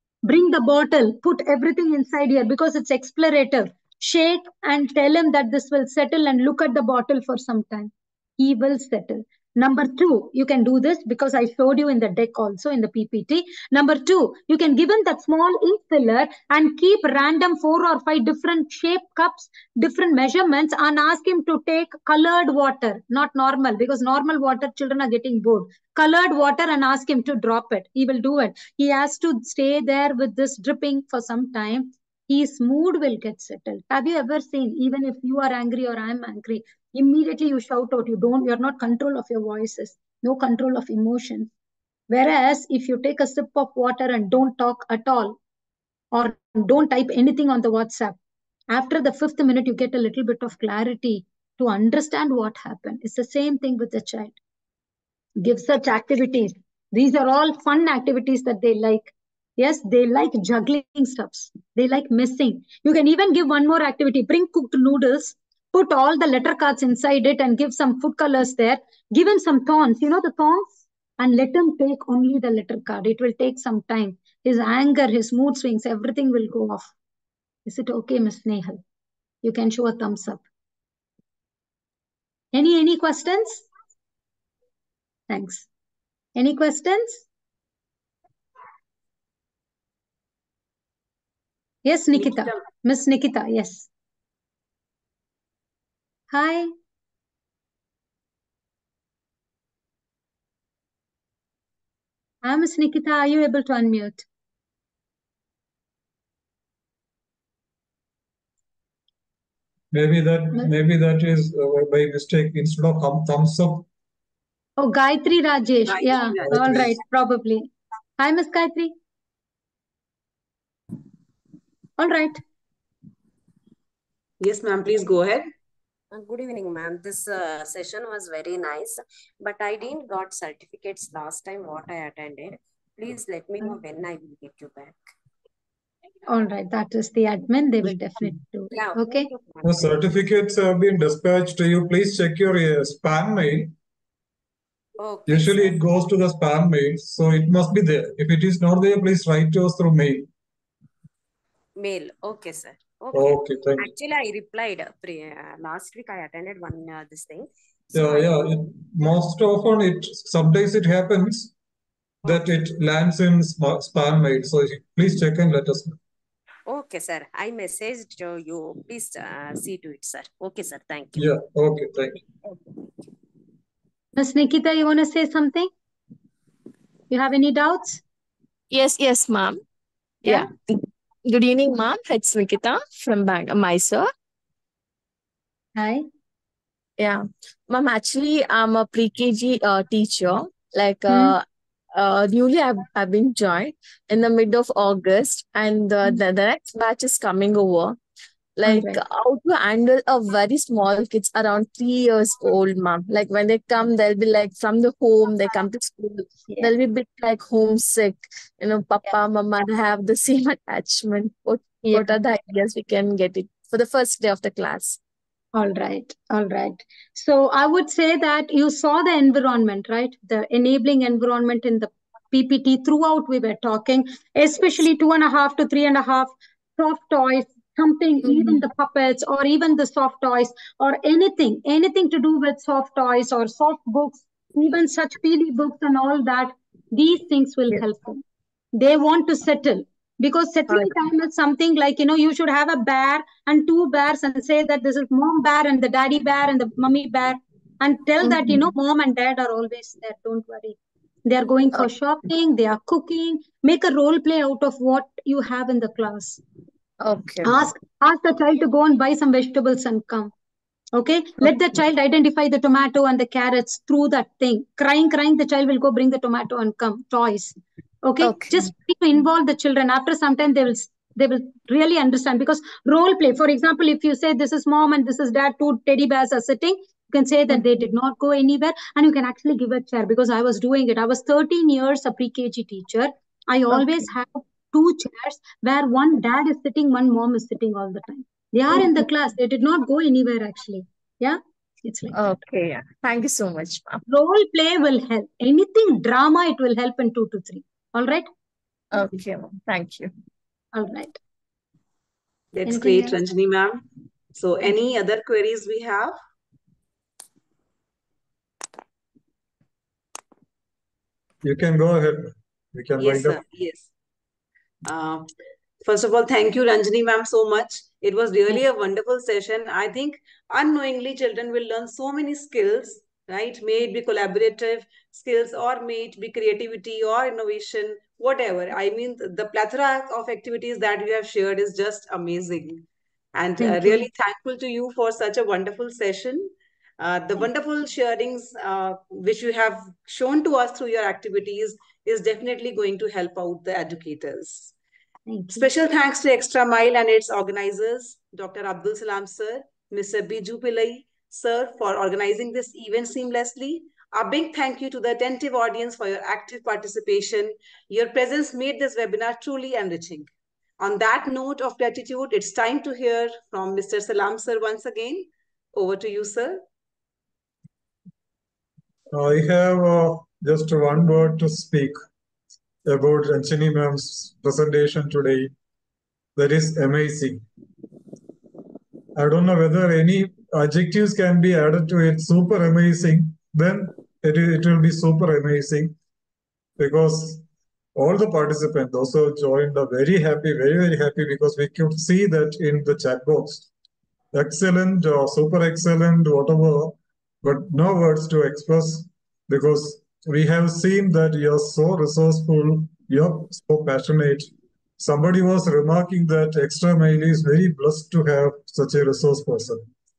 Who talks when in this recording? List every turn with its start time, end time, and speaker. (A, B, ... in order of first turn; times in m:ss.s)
0:00.2-0:41.5 A
0:42.1-0:45.4 A
0:46.1-0:48.2 A
0:48.7-0:54.4 A
0:55.4-1:16.9 A
1:17.7-1:18.8 A
1:19.4-1:20.4 A
1:22.5-1:23.7 A
1:25.3-1:25.7 A
1:26.4-1:27.3 A
1:31.8-1:33.9 A
1:32.2-1:32.6 B
1:36.3-1:36.7 A
1:42.4-1:44.2 A
1:49.9-1:53.9 C
1:54.8-1:58.9 A
1:55.9-1:56.9 B
1:56.4-1:57.0 C
2:02.0-2:02.4 A
2:04.4-2:05.5 B
2:06.1-2:15.1 D
2:16.3-2:19.3 A
2:18.7-2:20.0 D
2:19.6-2:23.7 C
2:25.0-2:25.8 D
2:25.3-2:30.3 C
2:31.8-2:38.3 D
2:33.1-2:33.9 C
2:37.9-2:41.5 C
2:42.2-2:46.0 C
2:46.7-2:51.3 D
2:51.2-2:52.2 C
2:54.2-2:55.7 A
2:57.1-2:58.0 A
2:58.7-2:59.6 E
3:00.2-3:04.1 E
3:05.8-3:06.1 A
3:07.0-3:18.0 E
3:11.1-3:11.4 A
3:18.6-3:35.0 E
3:18.6-3:19.0 A
3:31.8-3:32.2 A
3:35.5-3:58.2 A
3:48.2-3:48.6 E
3:58.8-4:16.4 A
4:00.7-4:00.9 E
4:08.2-4:08.7 E
4:17.0-4:17.7 E
4:17.4-4:20.3 A
4:21.0-4:52.2 A
4:28.2-4:28.7 E
4:43.7-4:44.1 E
4:48.7-4:49.1 E
4:52.1-4:54.0 E
4:54.1-4:58.3 A
4:58.9-5:00.1 E
5:00.7-5:01.2 A
5:02.6-5:03.8 B
5:02.7-5:03.2 A
5:04.4-5:06.2 B
5:11.4-5:13.4 C
5:13.0-5:13.9 B
5:14.8-5:15.3 B
5:15.8-5:44.7 B
5:33.6-5:34.1 A
5:45.3-5:45.7 A
5:45.6-6:06.6 B
6:09.1-6:12.0 C
6:12.8-6:15.5 C
6:16.4-6:17.4 C
6:19.2-6:26.0 C
6:26.8-6:33.7 C
6:34.3-6:49.9 C